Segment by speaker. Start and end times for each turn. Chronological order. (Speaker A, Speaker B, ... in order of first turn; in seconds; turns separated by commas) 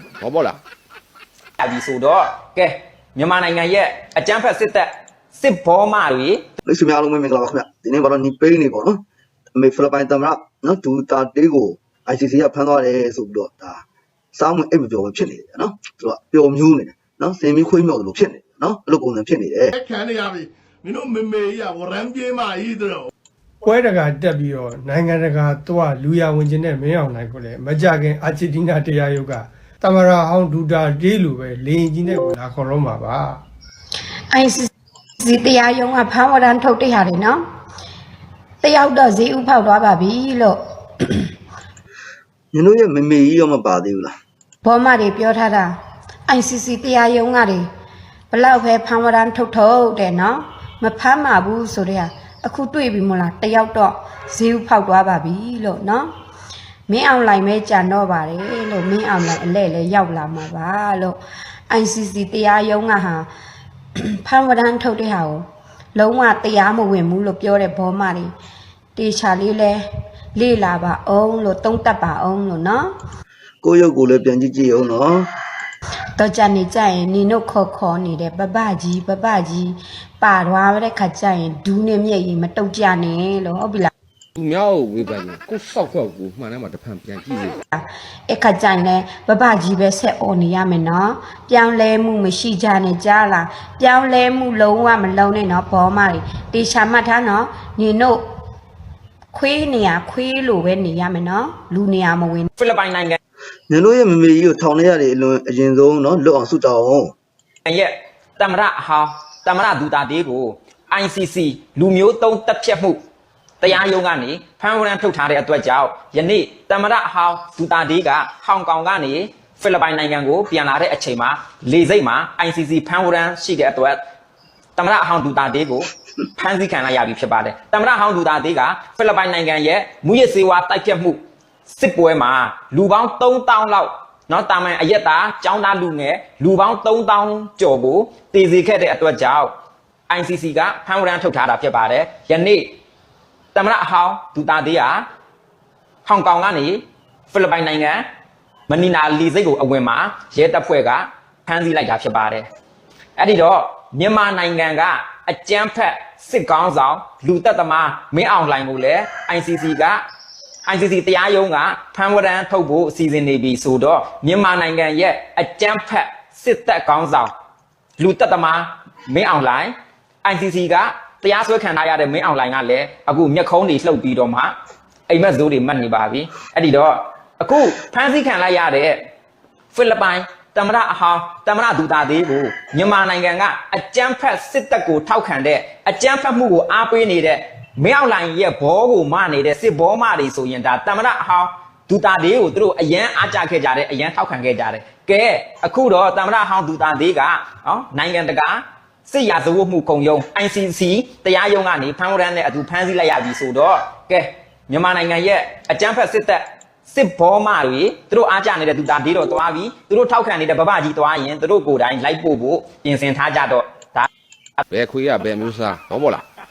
Speaker A: 0.2-0.6, Speaker B: 1.6-6.4, Speaker C: 6.6-9.0, Speaker C: 9.5-19.7, Speaker D: 19.8-23.1, Speaker E: 23.6-33.4, Speaker F: 34.3-34.7, Speaker F: 35.2-37.4, Speaker F: 38.6-41.3, Speaker C: 42.5-44.1, Speaker F: 44.6-45.7, Speaker F: 46.3-47.6, Speaker F: 48.3-56.1, Speaker F: 56.9-63.3, Speaker F: 64.0-65.4, Speaker F: 65.9-68.3, Speaker F: 69.0-69.8, Speaker F: 70.3-72.9, Speaker C: 73.6-75.3, Speaker F: 76.2-83.9, Speaker A: 84.4-87.6, Speaker F: 87.7-98.2, Speaker F: 99.3-102.5, Speaker B: 102.6-103.2, Speaker C: 103.7-107.1, Speaker B: 107.7-113.0, Speaker B: 113.6-124.0, Speaker B: 124.8-139.5, Speaker B: 140.1-142.8, Speaker B: 143.5-145.0, Speaker B: 146.1-148.0, Speaker B: 148.7-152.4, Speaker B: 153.2-160.0, Speaker B: 160.7-167.3, Speaker B: 168.0-169.7, Speaker B: 170.2-174.5, Speaker B: 175.1-179.0, Speaker B: 179.7-214.1, Speaker A: 214.7-216.2